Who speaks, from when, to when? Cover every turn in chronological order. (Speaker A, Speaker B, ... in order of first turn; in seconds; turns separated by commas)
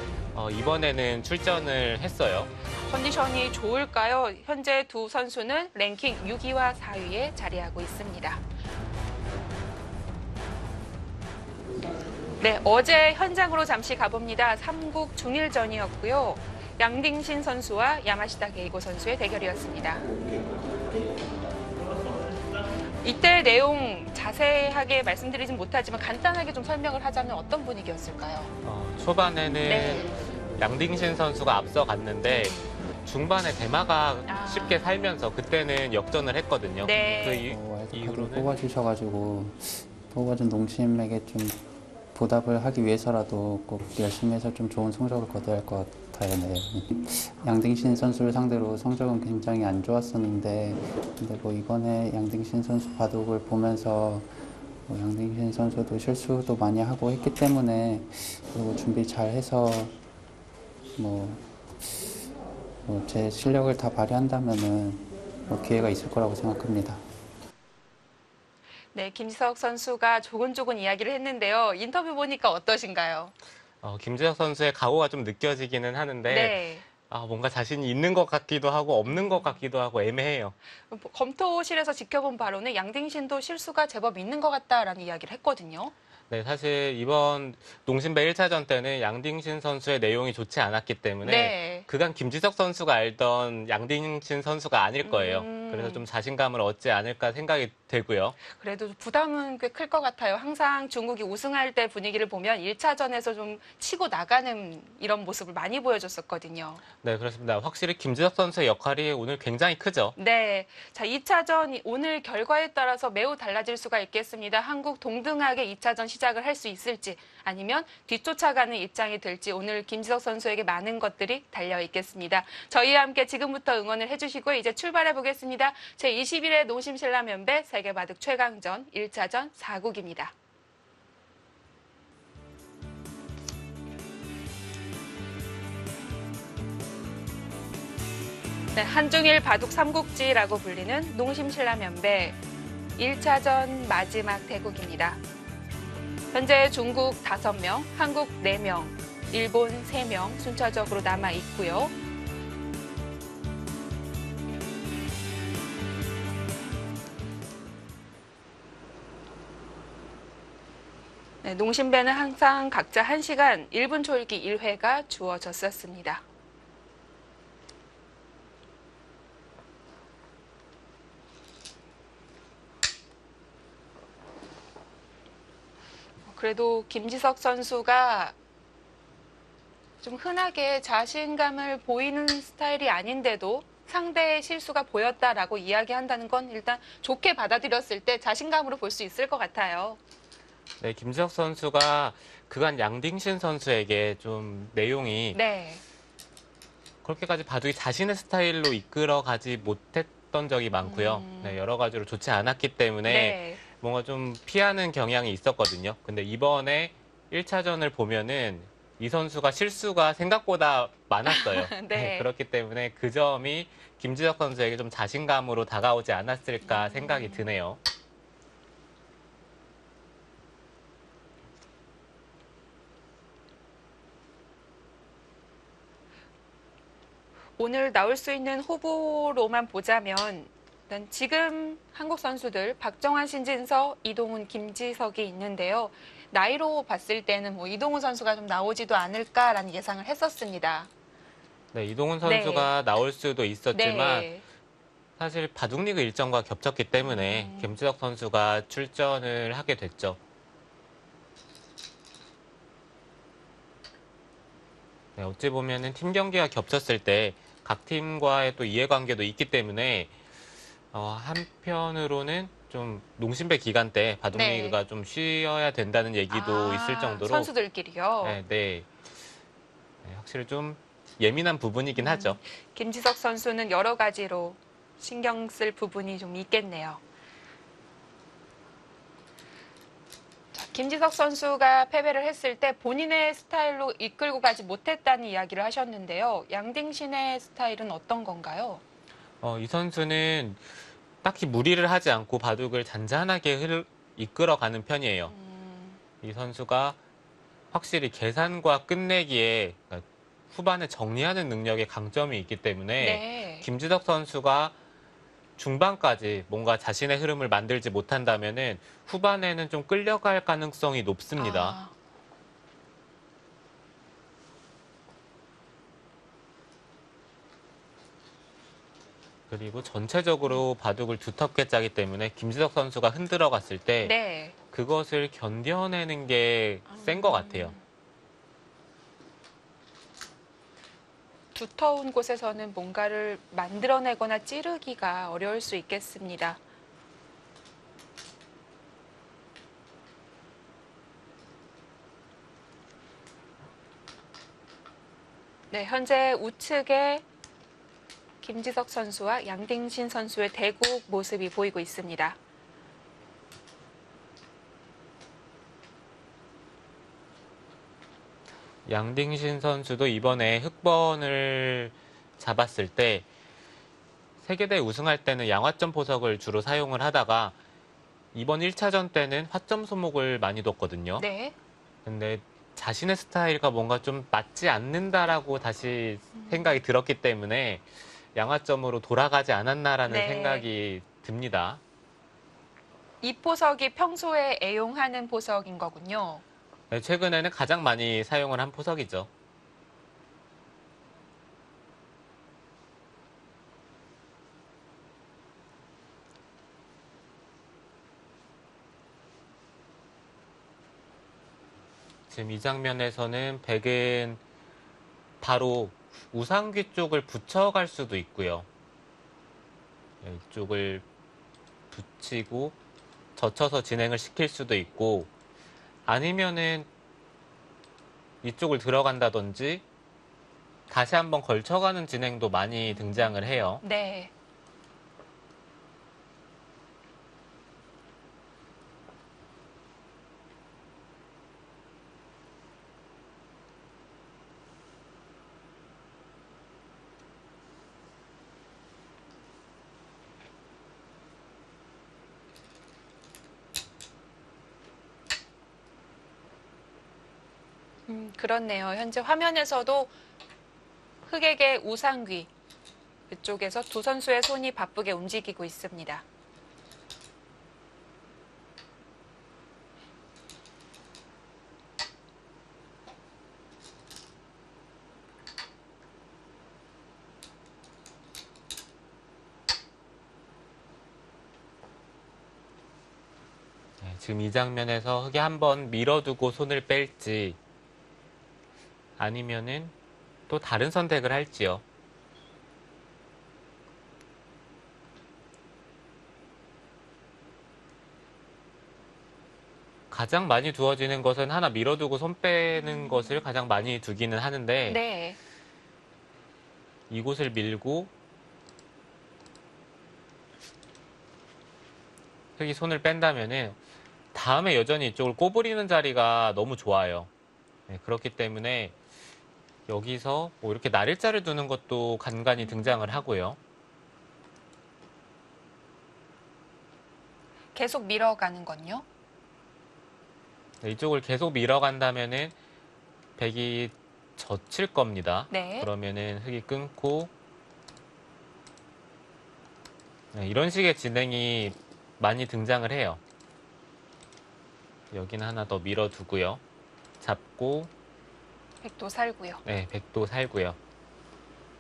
Speaker A: 0.3-2.5, Speaker B: 2.8-8.4, Speaker B: 12.4-20.1, Speaker B: 23.0-28.5, Speaker A: 28.6-38.5, Speaker B: 29.6-30.1, Speaker B: 34.3-34.9, Speaker B: 36.8-37.5, Speaker C: 37.0-41.6, Speaker C: 42.1-54.3, Speaker C: 54.9-59.9, Speaker C: 61.0-62.2, Speaker C: 62.9-67.0, Speaker B: 68.9-73.3, Speaker A: 73.8-80.5, Speaker B: 76.3-76.9, Speaker B: 79.1-79.6, Speaker B: 80.9-85.9, Speaker A: 86.3-98.4, Speaker B: 91.2-91.9, Speaker B: 95.0-96.0, Speaker B: 98.4-106.8, Speaker A: 107.0-110.2, Speaker B: 110.2-130.3, Speaker B: 138.8-142.4, Speaker B: 143.0-145.2, Speaker B: 146.3-151.9, Speaker B: 161.4-166.2, Speaker B: 176.3-178.3, Speaker B: 180.0-190.0, Speaker A: 190.8-195.4, Speaker B: 195.3-195.8, Speaker A: 197.0-217.8, Speaker B: 200.8-201.6, Speaker B: 203.1-203.6, Speaker B: 211.3-212.3, Speaker B: 216.6-217.5, Speaker B: 227.6-240.9, Speaker A: 241.7-244.3, Speaker B: 242.2-242.7, Speaker B: 243.7-244.4, Speaker A: 245.2-250.2, Speaker B: 247.0-247.8, Speaker A: 255.2-260.1, Speaker A: 260.9-267.5, Speaker B: 264.3-264.8, Speaker B: 266.3-268.4, Speaker A: 268.2-268.9, Speaker A: 270.0-272.4, Speaker B: 271.9-277.0, Speaker B: 280.5-288.8, Speaker A: 289.4-290.6, Speaker A: 291.2-295.3, Speaker B: 295.3-296.0, Speaker A: 296.2-297.0, Speaker A: 297.7-304.7, Speaker B: 303.0-303.7, Speaker A: 305.6-311.8, Speaker B: 311.4-311.9, Speaker A: 319.5-324.1, Speaker B: 324.0-324.6, Speaker A: 324.7-327.8, Speaker B: 326.9-327.8, Speaker B: 331.6-336.6, Speaker B: 345.7-347.2, Speaker B: 348.4-352.4, Speaker A: 358.9-363.3, Speaker A: 364.4-367.6, Speaker A: 368.3-371.3, Speaker B: 371.2-371.6, Speaker A: 372.1-381.8, Speaker B: 376.4-376.8, Speaker B: 380.1-380.7, Speaker B: 383.2-386.4, Speaker A: 386.9-389.3, Speaker A: 402.3-404.4, Speaker A: 405.4-408.7, Speaker A: 410.2-411.0, Speaker A: 411.9-412.8, Speaker A: 413.4-415.3, Speaker A: 416.1-416.9, Speaker A: 418.4-419.8, Speaker A: 420.9-423.8, Speaker B: 422.9-424.3, Speaker B: 448.1-450.1, Speaker B: 451.3-452.5, Speaker B: 453.3-456.2, Speaker A: 474.0-477.6, Speaker A: 479.2-479.9, Speaker A: 480.5-481.8, Speaker A: 490.1-495.0, Speaker B: 492.8-493.4, Speaker B: 494.9-495.4, Speaker A: 497.1-498.1, Speaker A: 502.6-503.8, Speaker A: 504.3-507.3, Speaker A: 507.9-508.9, Speaker A: 509.9-513.6, Speaker B: 512.6-513.2, Speaker B: 517.8-519.1, Speaker A: 520.8-522.5, Speaker A: 523.4-527.3, Speaker B: 525.5-525.9, Speaker A: 530.3-533.2, Speaker A: 535.1-536.6, Speaker A: 537.2-537.9, Speaker B: 538.8-539.6, Speaker A: 539.6-540.8